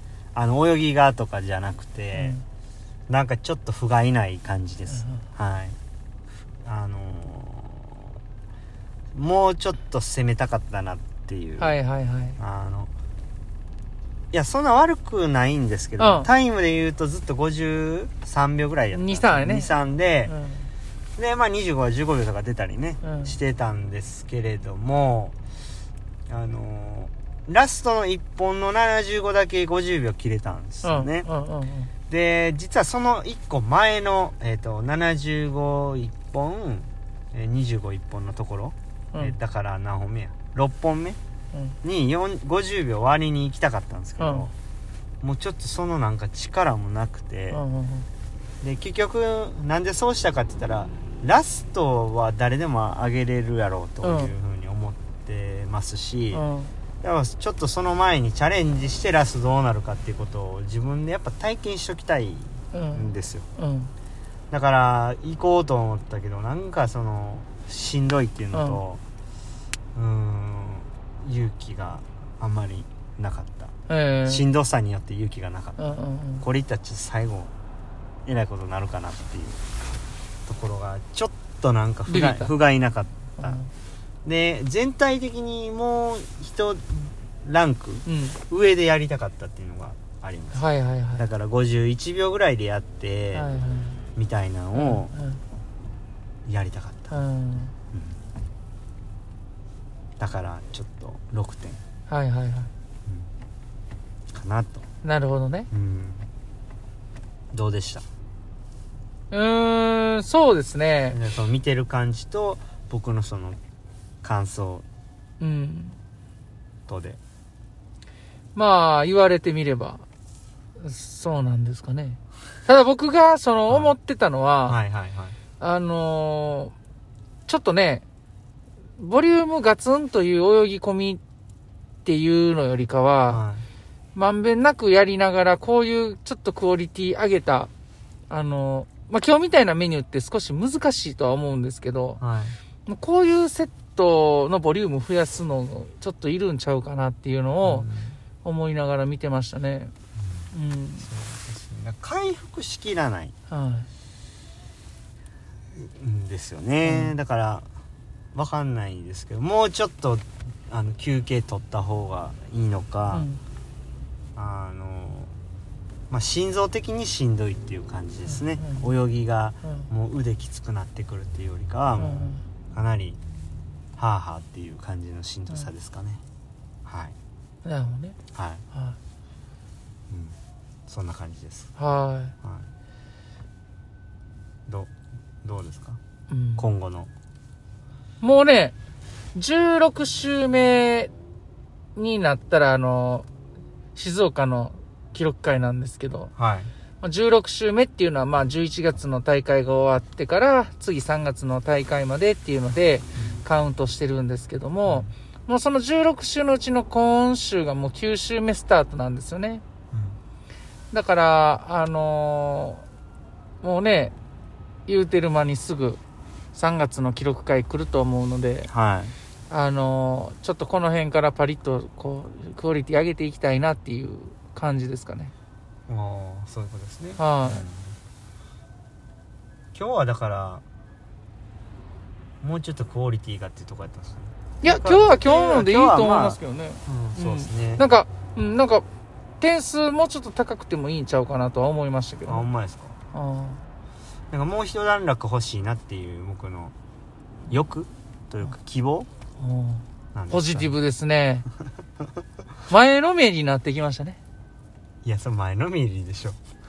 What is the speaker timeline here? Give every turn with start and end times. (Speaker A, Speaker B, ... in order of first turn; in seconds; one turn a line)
Speaker A: 0.3-2.4
Speaker B: 2.1-2.4
Speaker A: 3.1-5.8
Speaker B: 4.9-5.2
Speaker A: 6.6-8.2
Speaker A: 9.1-11.7
Speaker B: 11.6-12.4
Speaker A: 12.4-12.9
Speaker A: 14.3-20.3
Speaker B: 16.0-16.3
Speaker B: 18.9-19.7
Speaker B: 20.2-20.7
Speaker A: 21.2-25.4
Speaker B: 23.0-23.3
Speaker A: 26.3-31.3
Speaker B: 30.8-31.9
Speaker A: 32.1-41.2
Speaker A: 41.8-44.5
Speaker B: 44.2-44.5
Speaker A: 45.2-47.6
Speaker B: 47.5-48.1
Speaker A: 48.6-56.4
Speaker B: 54.0-54.3
Speaker B: 56.3-56.7
Speaker A: 57.0-63.5
Speaker B: 62.7-63.9
Speaker A: 64.5-69.0
Speaker B: 68.5-68.8
Speaker A: 69.9-73.7
Speaker B: 73.9-74.4
Speaker A: 74.2-75.8
Speaker B: 75.8-76.4
Speaker A: 76.4-77.5
Speaker A: 78.2-79.6
Speaker A: 80.5-83.6
Speaker B: 82.1-82.5
Speaker B: 83.4-83.7
Speaker A: 84.2-90.7
Speaker B: 88.0-88.4
Speaker B: 90.5-91.2
Speaker A: 91.2-93.5
Speaker B: 93.3-94.0
Speaker A: 94.2-95.1
Speaker B: 94.7-95.4
Speaker A: 96.5-97.2
Speaker B: 97.1-97.7
Speaker A: 97.9-98.2
Speaker A: 100.2-101.8
Speaker B: 102.1-102.7
Speaker A: 104.3-104.8
Speaker B: 105.0-105.7
Speaker A: 105.7-106.3
Speaker A: 107.5-108.0
Speaker B: 109.3-111.2
Speaker A: 111.1-113.6
Speaker A: 114.2-114.8
Speaker B: 115.4-116.0
Speaker A: 116.9-117.2
Speaker B: 118.5-120.0
Speaker B: 120.8-124.8
Speaker A: 123.7-123.9
Speaker A: 124.7-125.4
Speaker B: 125.6-126.7
Speaker B: 127.5-128.0
Speaker B: 129.0-131.2
Speaker B: 132.0-133.4
Speaker A: 133.3-133.7
Speaker B: 134.1-137.7
Speaker B: 138.3-142.2
Speaker A: 142.2-142.6
Speaker B: 142.8-147.8
Speaker A: 147.6-148.2
Speaker B: 148.4-149.9
Speaker A: 150.2-153.3
Speaker B: 150.5-151.1
Speaker B: 153.5-153.9
Speaker A: 155.7-157.7
Speaker B: 156.8-157.1
Speaker A: 158.3-163.3
Speaker B: 163.1-163.4
Speaker A: 164.3-165.3
Speaker A: 166.1-173.2
Speaker B: 168.3-168.9
Speaker B: 172.0-172.4
Speaker A: 174.0-176.2
Speaker A: 176.8-177.1
Speaker B: 177.6-178.2
Speaker A: 178.3-178.6
Speaker B: 178.7-179.0
Speaker A: 180.1-180.3
Speaker A: 180.9-181.7
Speaker B: 181.8-182.3
Speaker A: 185.4-186.0
Speaker B: 186.3-186.7
Speaker A: 186.6-187.1
Speaker B: 188.2-188.7
Speaker B: 189.3-191.1
Speaker B: 191.9-193.3
Speaker B: 193.9-196.3
Speaker A: 196.3-196.7
Speaker B: 197.0-209.6
Speaker A: 209.9-210.2
Speaker B: 210.9-212.8
Speaker B: 213.6-214.1
Speaker B: 214.9-216.0
Speaker B: 216.5-218.7
Speaker A: 218.7-219.1
Speaker B: 219.5-225.3
Speaker A: 225.9-227.9
Speaker B: 227.2-227.6
Speaker A: 229.7-230.6
Speaker A: 232.4-237.9
Speaker B: 234.6-238.8
Speaker B: 239.4-242.5
Speaker A: 242.2-242.9
Speaker B: 243.1-243.6
Speaker A: 244.3-246.7
Speaker A: 247.5-249.1
Speaker B: 249.4-251.4
Speaker A: 250.1-250.7
Speaker B: 252.7-254.2
Speaker A: 255.0-256.4